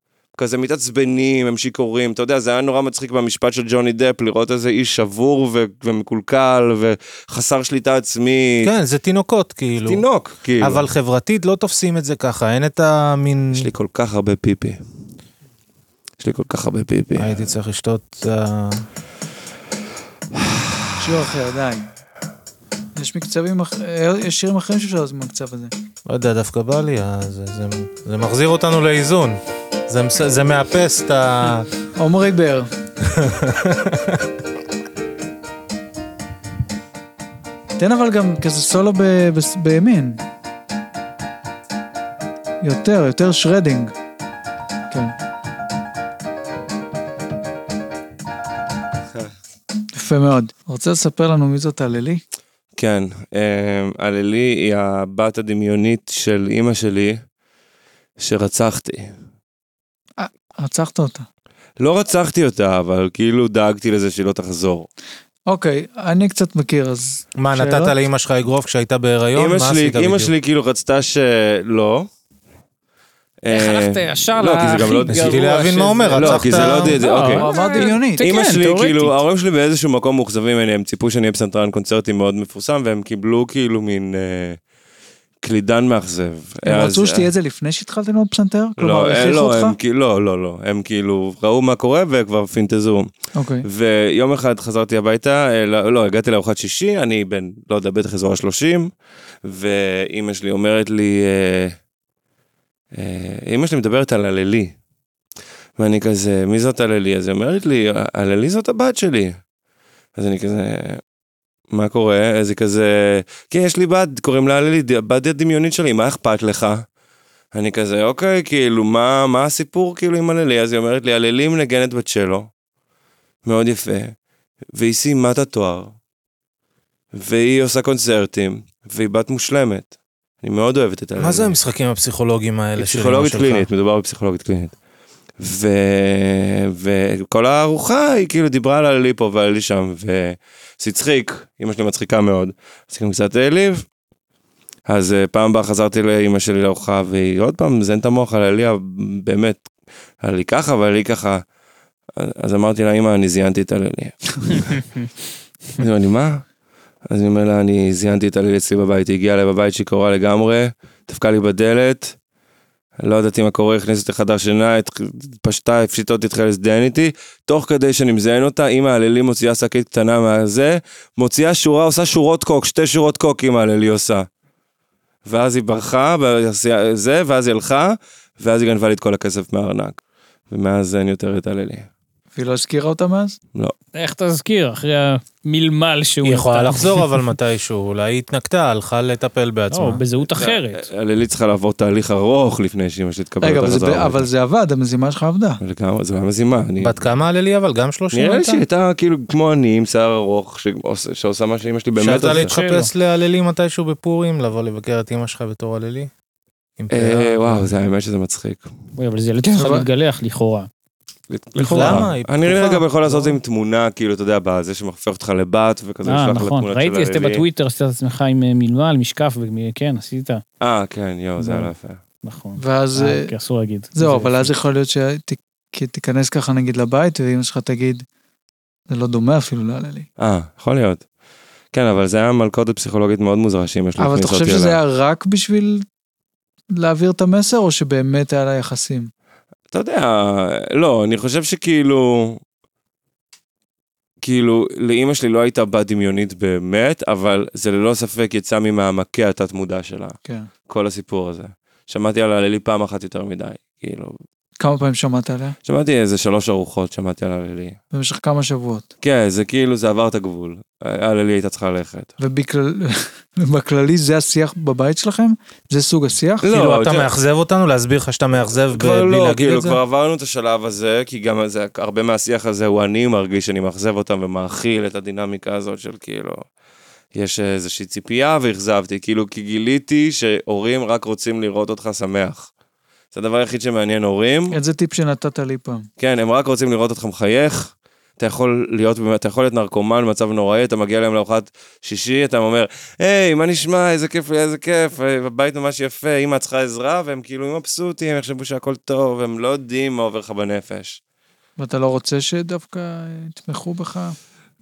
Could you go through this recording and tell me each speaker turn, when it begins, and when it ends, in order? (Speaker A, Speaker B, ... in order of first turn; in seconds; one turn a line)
Speaker A: 0.3-8.7
Speaker B: 8.6-10.0
Speaker A: 9.8-10.8
Speaker B: 10.6-13.7
Speaker A: 13.5-14.8
Speaker A: 16.2-17.4
Speaker B: 17.1-18.9
Speaker A: 20.4-20.8
Speaker C: 21.0-21.9
Speaker C: 22.9-25.7
Speaker B: 26.1-31.7
Speaker C: 31.9-32.7
Speaker B: 33.0-34.2
Speaker C: 37.8-40.2
Speaker C: 42.6-43.9
Speaker C: 49.9-52.2
Speaker A: 52.8-57.2
Speaker A: 58.2-59.1
Speaker C: 60.2-61.2
Speaker A: 61.8-64.9
Speaker C: 65.5-68.0
Speaker B: 67.4-70.3
Speaker A: 69.3-72.1
Speaker A: 73.4-75.5
Speaker D: 73.5-79.2
Speaker B: 75.1-77.0
Speaker A: 76.2-84.6
Speaker C: 77.2-78.2
Speaker A: 85.4-87.3
Speaker C: 86.6-89.8
Speaker A: 88.8-93.1
Speaker C: 93.3-93.7
Speaker A: 93.6-98.9
Speaker A: 99.4-101.8
Speaker A: 102.9-104.7
Speaker A: 105.8-109.4
Speaker A: 110.2-111.0
Speaker A: 111.7-116.8
Speaker A: 117.5-122.5
Speaker A: 123.4-124.1
Speaker A: 124.7-125.9
Speaker A: 127.1-131.6
Speaker B: 131.2-133.7
Speaker A: 132.8-134.7
Speaker A: 135.4-143.8
Speaker A: 144.9-149.6
Speaker A: 150.2-151.4
Speaker A: 152.2-154.8
Speaker A: 155.8-156.4
Speaker A: 157.1-162.1
Speaker A: 163.0-174.3
Speaker A: 175.2-180.0
Speaker A: 180.5-181.9
Speaker C: 182.3-183.4
Speaker D: 183.9-187.2
Speaker B: 186.2-190.0
Speaker D: 189.7-190.8
Speaker A: 190.3-194.2
Speaker C: 193.4-195.6
Speaker A: 195.6-197.0
Speaker B: 196.8-198.6
Speaker A: 198.1-202.5
Speaker B: 202.0-206.1
Speaker D: 202.3-202.9
Speaker B: 206.8-207.7
Speaker A: 206.9-208.7
Speaker D: 208.9-210.7
Speaker C: 209.5-209.9
Speaker A: 211.3-217.4
Speaker D: 211.6-212.1
Speaker B: 211.6-213.3
Speaker D: 216.0-220.4
Speaker A: 220.6-222.0
Speaker D: 221.4-221.7
Speaker D: 222.2-224.5
Speaker C: 222.6-223.3
Speaker C: 223.9-228.0
Speaker C: 228.9-230.1
Speaker A: 230.2-231.0
Speaker A: 231.7-234.8
Speaker C: 234.0-235.8
Speaker C: 236.8-239.1
Speaker A: 239.7-242.4
Speaker A: 244.2-250.2
Speaker A: 250.7-254.1
Speaker C: 254.6-255.6
Speaker A: 255.6-257.8
Speaker C: 257.9-258.9
Speaker A: 259.0-262.1
Speaker C: 262.2-266.5
Speaker A: 266.4-267.1
Speaker B: 266.5-269.8
Speaker A: 268.7-276.4
Speaker A: 277.1-282.5
Speaker A: 283.1-284.6
Speaker C: 284.5-285.9
Speaker A: 286.0-301.0
Speaker C: 301.6-304.1